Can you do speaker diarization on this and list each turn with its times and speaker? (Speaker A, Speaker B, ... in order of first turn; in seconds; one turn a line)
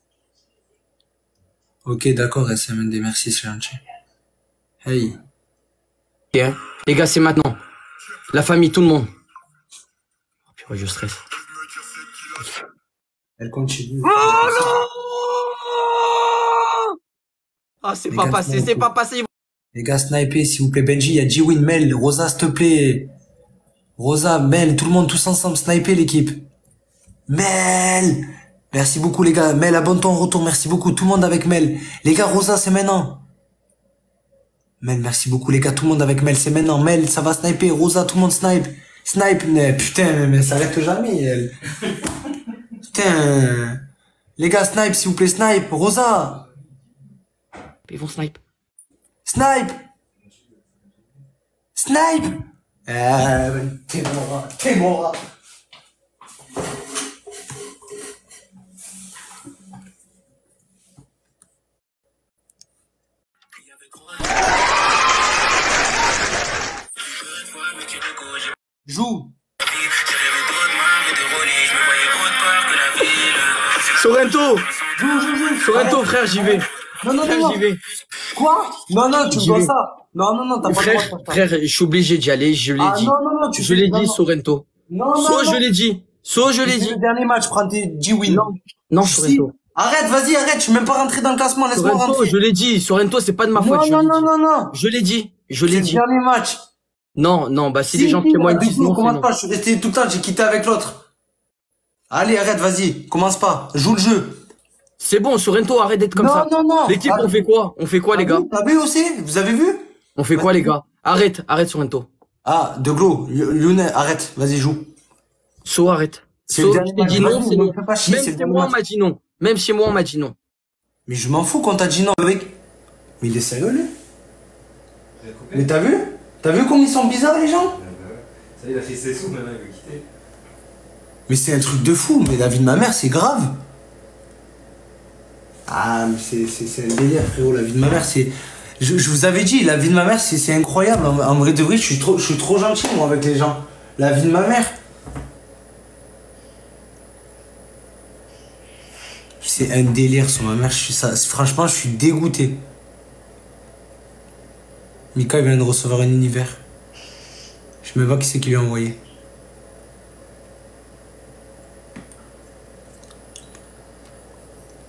Speaker A: 1.8-3.8
Speaker A: 4.8-5.2
Speaker B: 6.3-7.6
Speaker B: 8.3-9.1
Speaker B: 10.6-11.2
Speaker A: 13.4-14.8
Speaker B: 14.1-16.8
Speaker B: 17.8-19.3
Speaker A: 18.1-18.9
Speaker A: 19.7-23.1
Speaker A: 24.0-26.4
Speaker A: 27.3-33.2
Speaker A: 34.8-41.5
Speaker A: 42.8-43.8
Speaker A: 44.4-46.4
Speaker B: 47.9-48.4
Speaker A: 49.2-49.8
Speaker C: 50.2-50.8
Speaker A: 51.7-55.2
Speaker A: 68.8-69.3
Speaker B: 69.8-71.9
Speaker B: 72.7-74.7
Speaker A: 75.0-77.6
Speaker B: 75.6-76.7
Speaker B: 77.2-77.8
Speaker A: 78.3-81.4
Speaker B: 79.3-79.7
Speaker B: 80.6-87.0
Speaker A: 82.8-84.2
Speaker A: 84.9-85.6
Speaker A: 86.6-88.5
Speaker B: 88.2-89.5
Speaker A: 89.0-92.3
Speaker B: 91.7-96.0
Speaker A: 93.5-94.7
Speaker A: 95.7-96.6
Speaker B: 97.1-99.3
Speaker A: 97.9-101.0
Speaker A: 102.1-104.4
Speaker B: 105.0-108.5
Speaker A: 106.1-107.4
Speaker A: 108.1-110.7
Speaker B: 110.2-112.1
Speaker A: 112.4-114.9
Speaker B: 115.6-120.3
Speaker A: 116.5-118.7
Speaker A: 121.1-122.6
Speaker A: 123.2-123.9
Speaker C: 125.2-125.7
Speaker A: 125.5-127.8
Speaker C: 127.7-130.0
Speaker A: 131.3-133.6
Speaker A: 135.7-144.8
Speaker A: 149.4-152.6
Speaker A: 155.1-156.6
Speaker A: 157.8-159.0